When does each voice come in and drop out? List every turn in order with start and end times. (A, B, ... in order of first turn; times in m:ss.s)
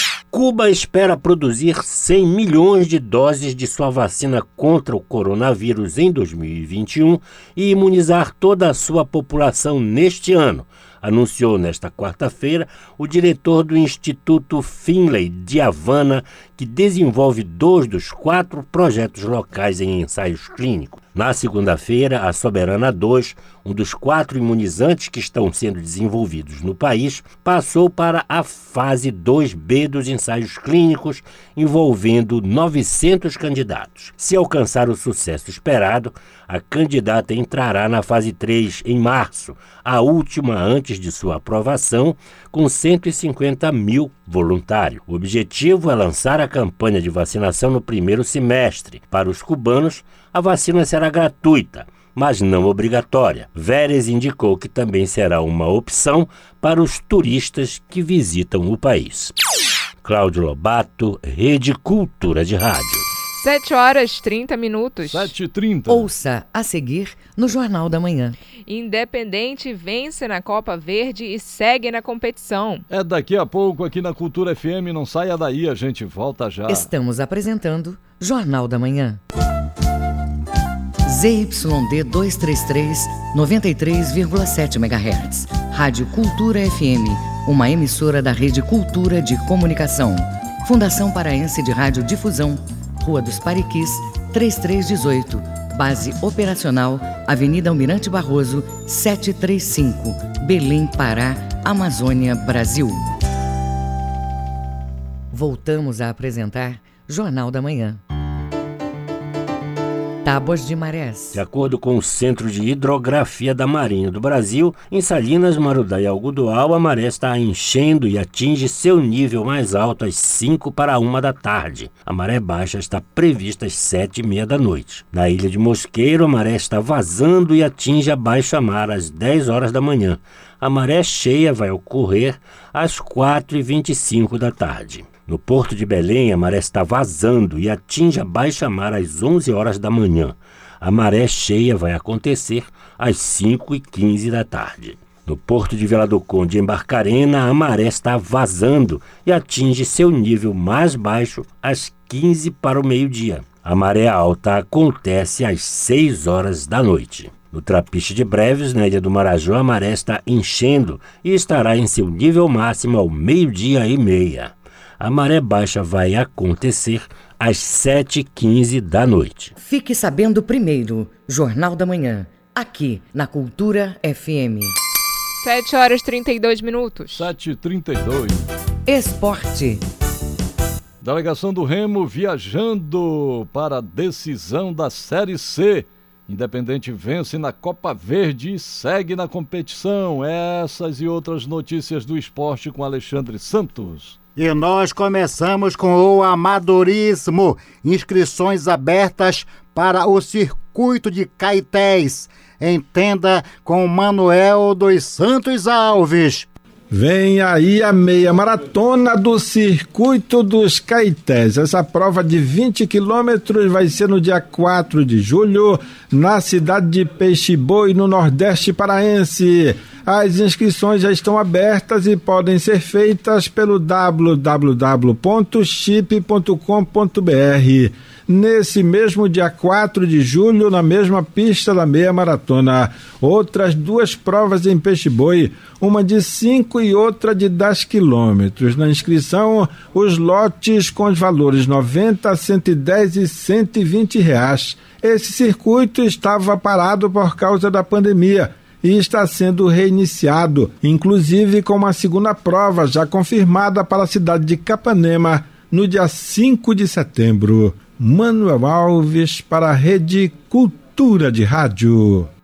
0:00.3-0:59.3 A
1:00.0-1:03.1 A
1:03.4-1:05.3 B
1:05.1-1:06.1 C
1:05.9-1:08.4 D
1:08.7-1:12.9 B
1:12.9-1:16.9 C
1:16.7-1:19.2 D
1:21.1-1:43.0 D
1:45.3-1:48.0 D
1:50.2-1:51.4 D
1:51.3-2:49.5 A
2:49.6-2:54.7 D
2:55.4-2:57.3 B
2:57.1-2:58.5 C
2:58.9-2:59.8 D
3:01.0-3:14.2 C
3:14.4-3:26.5 E
3:26.9-4:22.3 F